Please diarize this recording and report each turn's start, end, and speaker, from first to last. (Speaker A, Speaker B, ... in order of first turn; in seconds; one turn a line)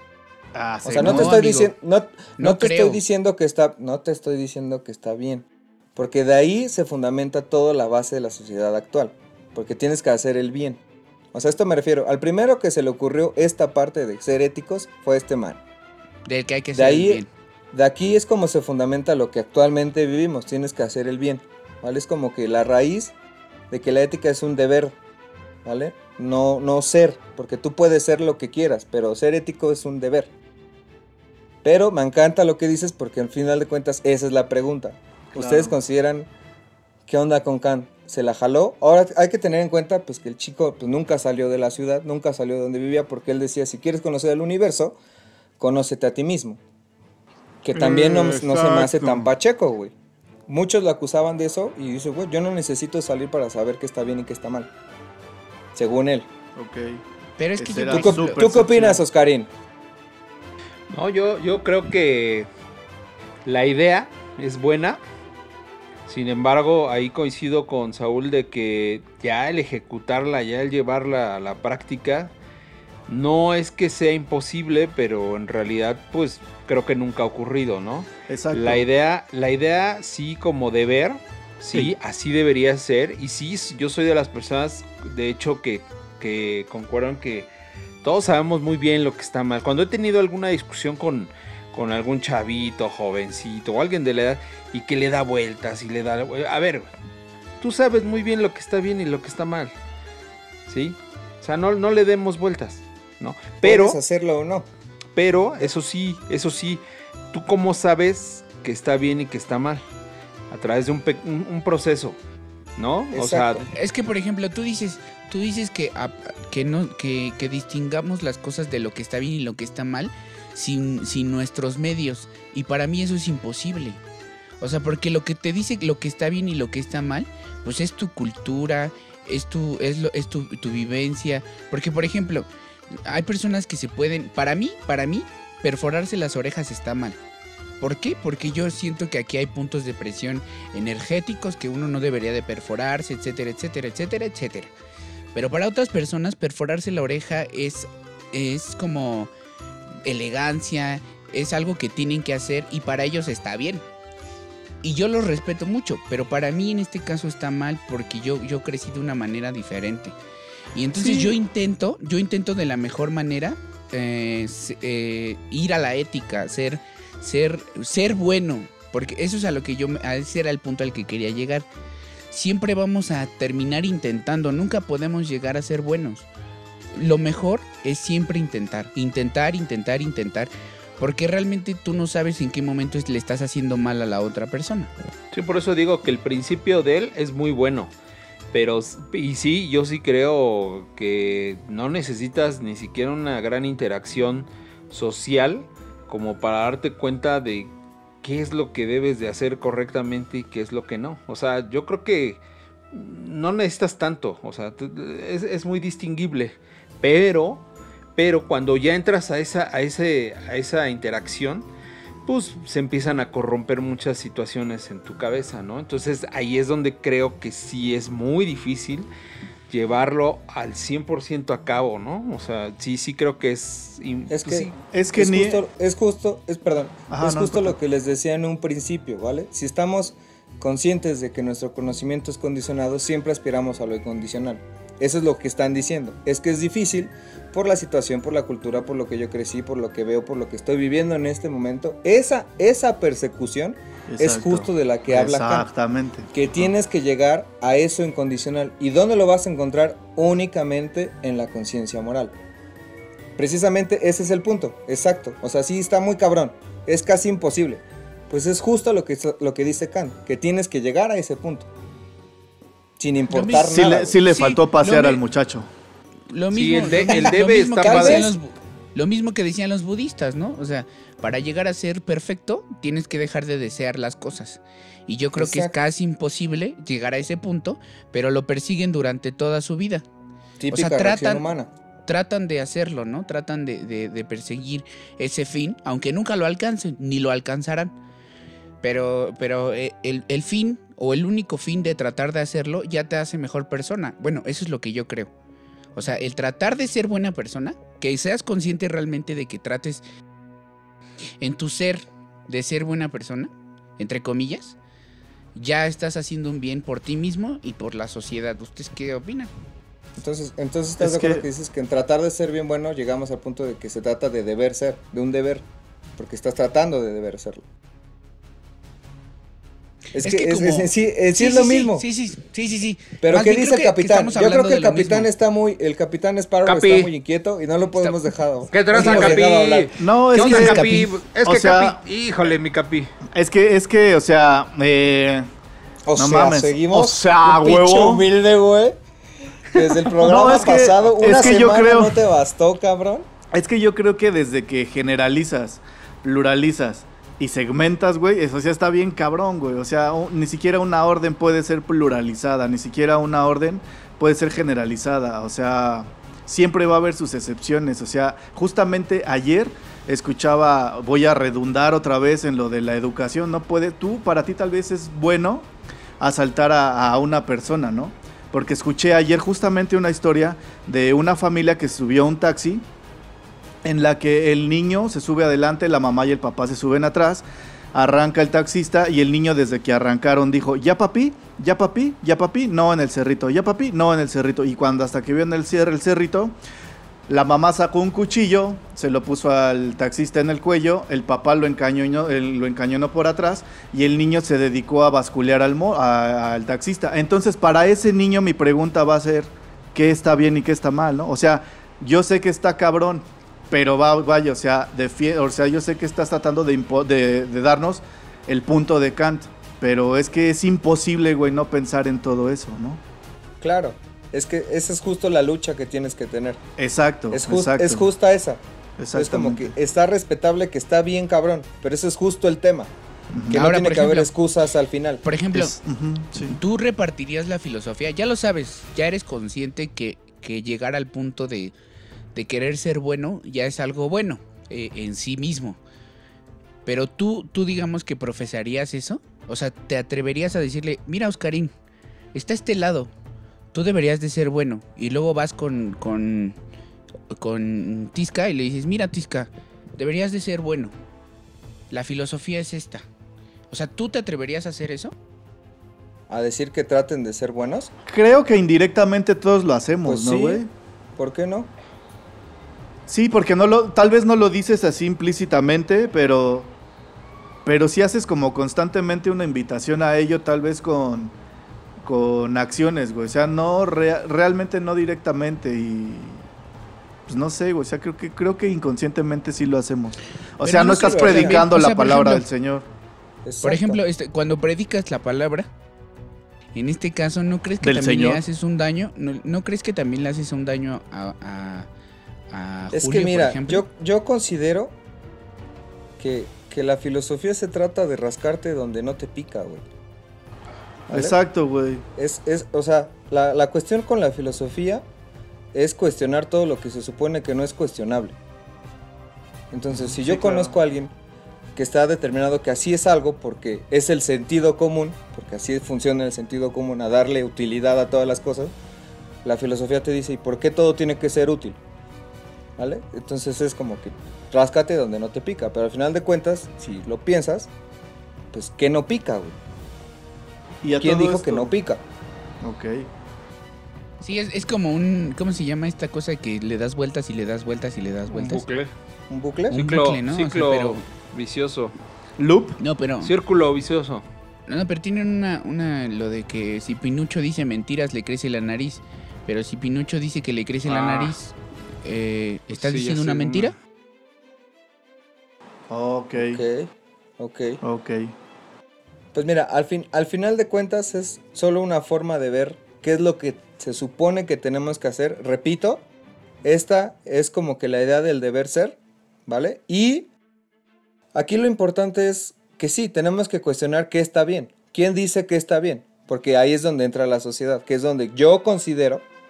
Speaker A: 0.5-1.4
Speaker B: 0.8-10.8
Speaker C: 1.0-1.7
Speaker C: 2.4-3.0
Speaker B: 11.3-15.6
Speaker C: 16.3-17.3
Speaker B: 16.7-23.1
Speaker B: 23.7-24.9
Speaker B: 25.6-30.3
Speaker B: 31.6-36.3
Speaker A: 35.4-35.8
Speaker B: 37.1-45.0
Speaker B: 45.6-46.6
Speaker B: 47.6-49.9
Speaker A: 47.7-49.3
Speaker B: 50.5-54.7
Speaker B: 55.8-56.3
Speaker A: 56.6-57.0
Speaker C: 57.4-59.0
Speaker A: 57.6-58.9
Speaker B: 57.9-59.5
Speaker D: 60.9-62.5
Speaker D: 63.5-65.0
Speaker D: 66.1-72.3
Speaker D: 73.1-87.5
Speaker A: 78.3-78.8
Speaker D: 88.0-96.9
Speaker D: 97.6-99.7
Speaker D: 100.7-104.0
Speaker B: 103.6-104.7
Speaker D: 105.2-106.8
Speaker D: 107.3-109.8
Speaker D: 110.5-112.2
Speaker D: 112.8-113.7
Speaker B: 113.1-113.7
Speaker C: 113.7-124.0
Speaker C: 124.6-137.2
Speaker C: 137.8-144.7
Speaker C: 145.3-149.3
Speaker C: 150.1-153.8
Speaker C: 154.8-160.2
Speaker C: 160.7-171.7
Speaker C: 172.3-176.3
Speaker C: 176.9-184.9
Speaker D: 185.3-187.9
Speaker D: 188.5-197.7
Speaker D: 198.2-202.4
Speaker D: 202.9-207.6
Speaker D: 208.2-211.7
Speaker D: 212.2-219.1
Speaker D: 219.7-224.8
Speaker B: 224.3-245.7
Speaker A: 224.9-225.6
Speaker A: 227.1-227.8
Speaker A: 244.1-246.7
Speaker B: 246.3-252.3
Speaker B: 253.4-261.7
Speaker B: 263.0-264.2
Speaker C: 263.3-265.2
Speaker A: 263.6-265.7
Speaker C: 266.3-280.1
Speaker D: 266.5-268.3
Speaker B: 267.1-268.3
Speaker B: 275.4-275.7
Speaker B: 280.6-281.7
Speaker C: 280.7-281.5
Speaker C: 282.1-287.9
Speaker C: 288.8-295.3
Speaker C: 295.9-300.0
Speaker C: 301.4-304.8
Speaker C: 305.6-309.5
Speaker B: 310.2-315.6
Speaker A: 311.0-311.4
Speaker B: 316.2-317.6
Speaker B: 320.1-322.0
Speaker C: 320.2-325.3
Speaker B: 323.2-329.9
Speaker D: 326.6-327.1
Speaker D: 328.7-333.1
Speaker A: 329.0-329.3
Speaker A: 330.0-330.9
Speaker C: 330.4-331.1
Speaker A: 331.4-332.0
Speaker A: 333.3-335.5
Speaker B: 336.1-339.0
Speaker A: 336.2-338.3
Speaker B: 339.7-343.3
Speaker A: 340.1-342.1
Speaker A: 343.5-365.7
Speaker A: 366.2-372.9
Speaker A: 373.8-386.5
Speaker A: 387.3-413.0
Speaker B: 413.6-416.6
Speaker A: 416.8-418.0
Speaker B: 417.3-418.6
Speaker A: 419.0-419.7
Speaker B: 419.1-422.9
Speaker A: 423.3-423.6
Speaker B: 423.5-425.2
Speaker C: 423.5-424.3
Speaker C: 425.2-425.8
Speaker A: 425.5-426.6
Speaker C: 426.5-431.7
Speaker C: 432.4-435.8
Speaker C: 436.9-441.7
Speaker C: 442.3-443.1
Speaker C: 443.7-446.6
Speaker C: 447.3-450.9
Speaker C: 451.9-453.1
Speaker C: 453.7-455.1
Speaker B: 456.3-457.9
Speaker A: 458.1-460.7
Speaker B: 460.1-460.6
Speaker B: 461.2-461.7
Speaker A: 463.1-466.7
Speaker A: 467.6-471.3
Speaker A: 472.0-476.4
Speaker A: 477.3-482.9
Speaker C: 480.6-482.4
Speaker B: 480.7-481.7
Speaker B: 483.4-484.0
Speaker C: 483.6-485.7
Speaker C: 486.8-491.9
Speaker A: 487.8-488.4
Speaker C: 492.5-493.9
Speaker B: 492.9-494.9
Speaker B: 496.2-499.9
Speaker A: 501.1-502.0
Speaker B: 501.1-501.4
Speaker B: 502.2-505.0
Speaker B: 505.7-508.4
Speaker B: 509.7-511.1
Speaker A: 510.0-510.7
Speaker B: 511.8-518.8
Speaker B: 519.4-521.8
Speaker B: 522.8-527.7
Speaker B: 528.5-529.6
Speaker A: 530.8-531.7
Speaker B: 531.0-532.0
Speaker A: 532.6-533.1
Speaker C: 534.2-538.6
Speaker D: 538.3-538.9
Speaker B: 539.3-539.8
Speaker C: 539.7-541.0
Speaker D: 539.7-541.9
Speaker A: 542.4-542.8
Speaker C: 542.8-543.3
Speaker D: 543.2-544.2
Speaker C: 544.7-553.8
Speaker D: 550.9-551.4
Speaker D: 552.7-553.7
Speaker A: 555.9-556.6
Speaker B: 556.4-557.8
Speaker A: 557.8-558.3
Speaker B: 559.3-566.0
Speaker B: 566.6-570.3
Speaker B: 571.3-579.2